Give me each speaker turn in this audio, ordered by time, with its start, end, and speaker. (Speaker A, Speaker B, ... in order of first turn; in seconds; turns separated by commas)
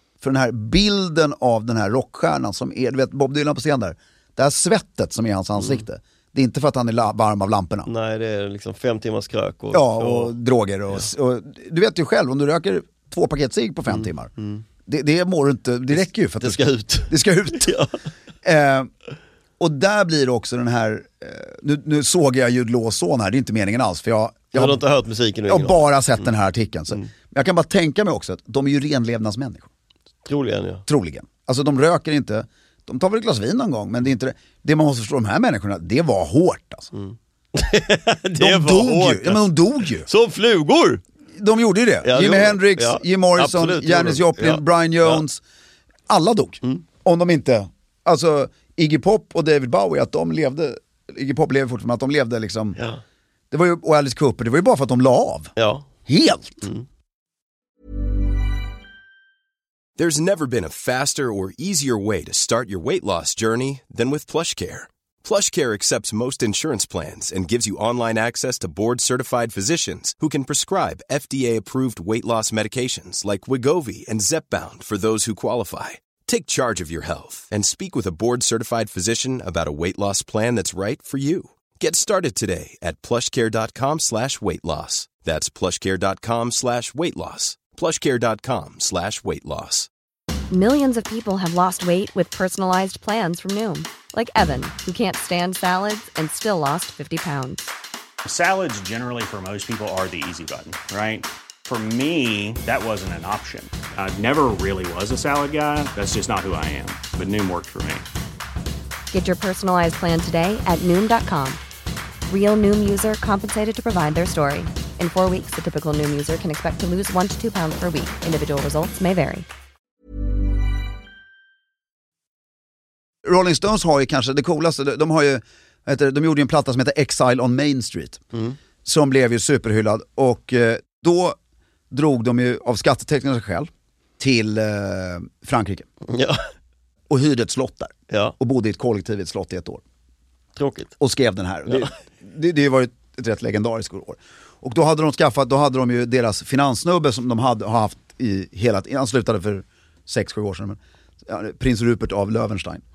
Speaker A: 0.2-7.9, Speaker B: 5.6-5.8, Speaker B: 7.9-10.3, Speaker A: 9.7-14.3, Speaker B: 13.9-14.7, Speaker A: 14.9-17.8, Speaker B: 15.9-18.0, Speaker A: 18.4-18.9, Speaker A: 19.6-24.8, Speaker B: 24.5-26.3, Speaker A: 25.5-29.7, Speaker B: 30.2-30.8, Speaker A: 30.9-36.9, Speaker B: 36.9-41.0, Speaker A: 38.4-40.1, Speaker A: 41.4-45.4, Speaker B: 42.0-45.2, Speaker A: 46.1-52.8, Speaker B: 52.8-53.0, Speaker A: 53.5-55.5, Speaker B: 55.6-55.9, Speaker A: 56.1-56.7, Speaker C: 60.0-89.9, Speaker D: 90.5-97.7, Speaker E: 98.2-108.1, Speaker D: 109.1-111.6, Speaker D: 112.3-119.5, Speaker A: 123.2-128.2, Speaker B: 128.3-128.6, Speaker A: 128.8-131.4, Speaker A: 131.9-135.9, Speaker B: 136.1-136.4, Speaker A: 137.1-139.8, Speaker B: 138.1-138.3, Speaker B: 140.6-140.9, Speaker A: 141.0-152.8